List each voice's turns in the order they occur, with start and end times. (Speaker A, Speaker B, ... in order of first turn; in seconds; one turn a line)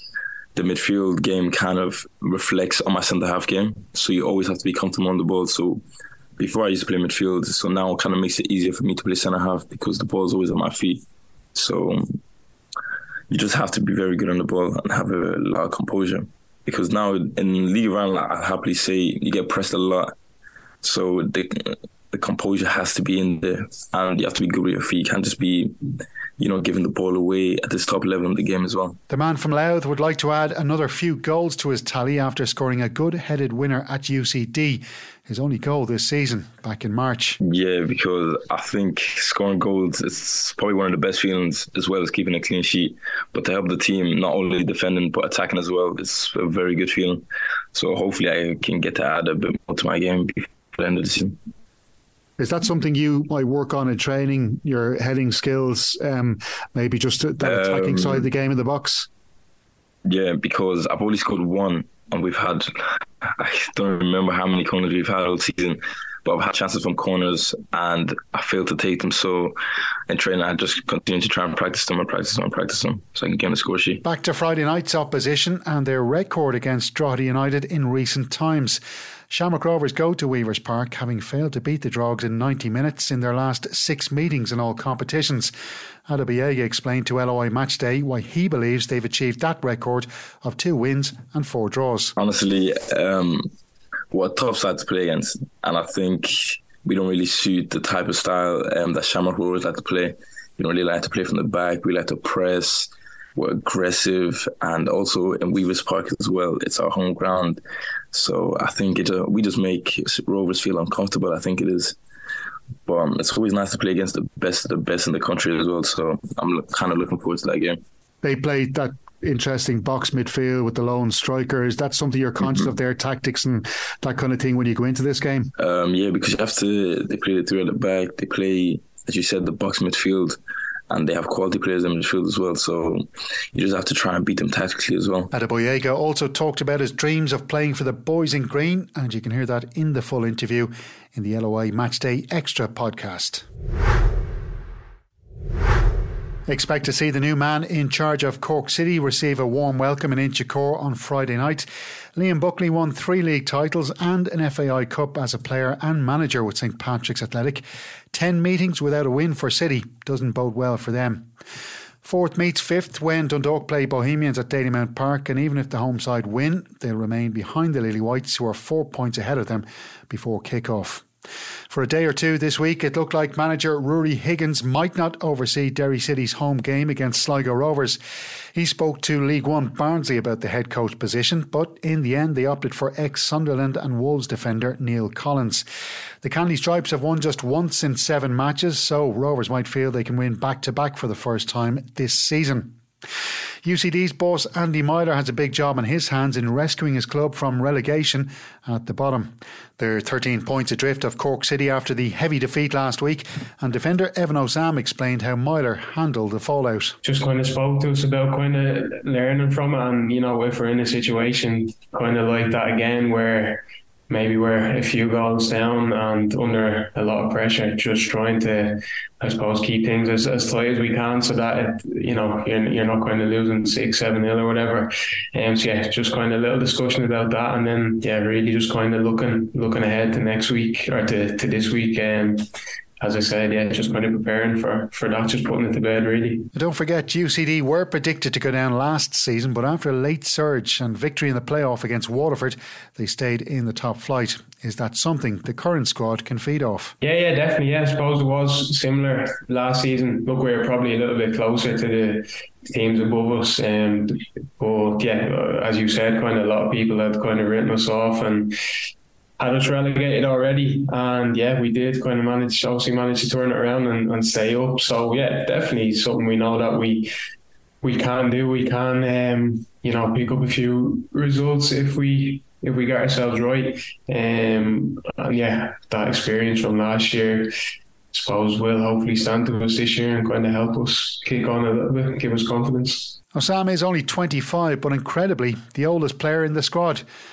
Speaker A: 0.5-5.8
Speaker A: 6.4-11.0
Speaker A: 11.5-12.0
Speaker A: 13.3-20.1
Speaker A: 20.8-25.7
Speaker A: 26.4-29.0
Speaker B: 29.1-37.4
Speaker A: 37.4-51.4
Speaker B: 52.4-59.1
Speaker A: 57.4-58.3
Speaker A: 60.1-62.7
Speaker A: 63.4-69.5
Speaker A: 70.1-74.0
Speaker B: 74.0-85.5
Speaker B: 86.1-92.1
Speaker A: 92.2-93.5
Speaker A: 94.1-107.6
Speaker A: 108.1-112.0
Speaker A: 112.8-117.8
Speaker B: 118.2-125.5
Speaker A: 125.6-130.4
Speaker A: 130.9-135.3
Speaker B: 135.3-143.4
Speaker B: 146.5-161.3
Speaker B: 162.0-171.1
Speaker B: 171.7-178.0
Speaker B: 178.5-185.7
Speaker B: 186.2-192.8
Speaker B: 193.6-206.9
Speaker C: 207.0-232.4
Speaker C: 233.0-236.5
Speaker B: 236.5-246.9
Speaker C: 247.0-258.5
Speaker C: 259.4-267.1
Speaker C: 267.8-277.5
Speaker C: 278.1-283.2
Speaker B: 283.3-287.0